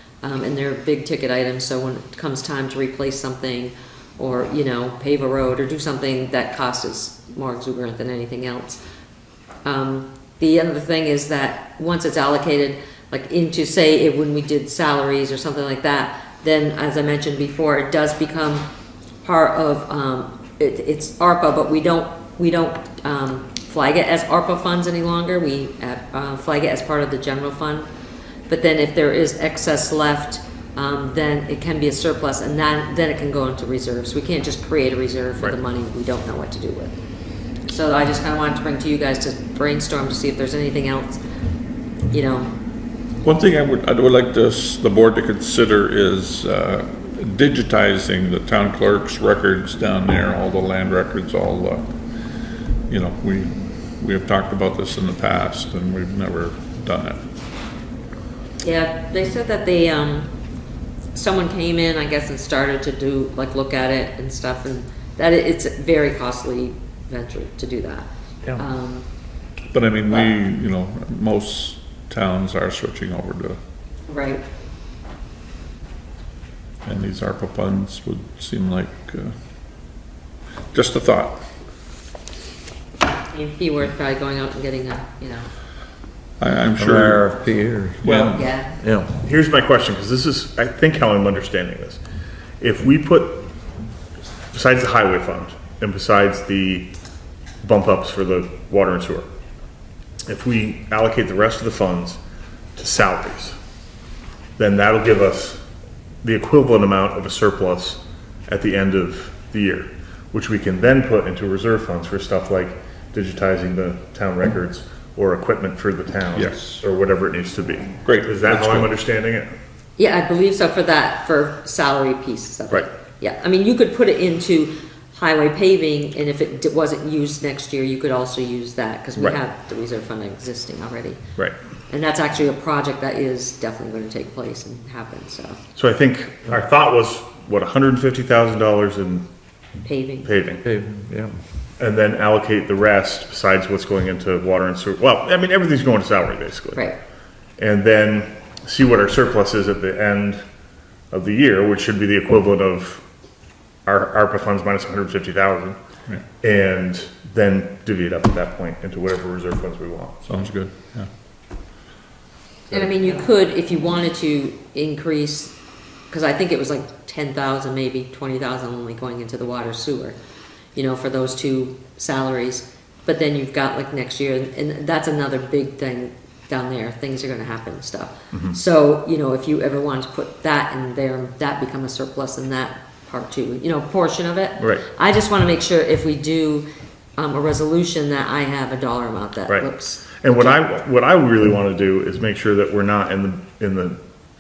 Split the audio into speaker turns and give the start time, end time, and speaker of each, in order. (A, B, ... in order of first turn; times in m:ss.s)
0:00.2-0:08.8 A
0:09.6-0:18.7 A
0:19.2-0:27.9 A
0:28.5-0:37.0 A
0:37.6-0:41.2 A
0:42.1-0:42.5 A
0:43.2-0:52.4 B
0:52.9-0:57.2 B
0:58.6-1:00.3 A
1:01.1-1:09.1 A
1:09.7-1:13.6 B
1:14.1-1:14.4 A
1:16.8-1:19.3 B
1:20.7-1:21.4 B
1:23.3-1:25.5 A
1:26.4-1:27.4 B
1:26.8-1:28.0 C
1:28.0-1:28.5 B
1:28.0-1:28.8 A
1:28.8-1:29.1 C
1:29.2-1:32.0 D
1:32.6-1:33.5 D
1:34.5-1:36.9 D
1:37.6-1:39.3 D
1:40.2-1:42.2 D
1:42.8-1:43.6 D
1:44.6-1:45.6 D
1:46.2-1:59.5 D
1:56.3-1:56.8 B
1:58.0-1:58.9 B
2:00.0-2:11.2 A
2:11.9-2:15.6 A
2:15.8-2:19.3 D
2:19.8-2:20.3 A
2:20.2-2:20.6 D
2:20.6-2:21.4 C
2:21.8-2:26.9 D
2:27.6-2:30.4 D
2:31.1-2:33.0 D
2:33.8-2:35.8 D
2:36.4-2:40.2 D
2:40.2-2:41.1 B
2:42.7-2:45.6 A
2:46.1-2:50.2 A
2:50.8-3:06.7 A
2:58.3-2:58.6 D
3:04.6-3:04.8 D
3:07.2-3:10.6 A
3:09.5-3:14.0 D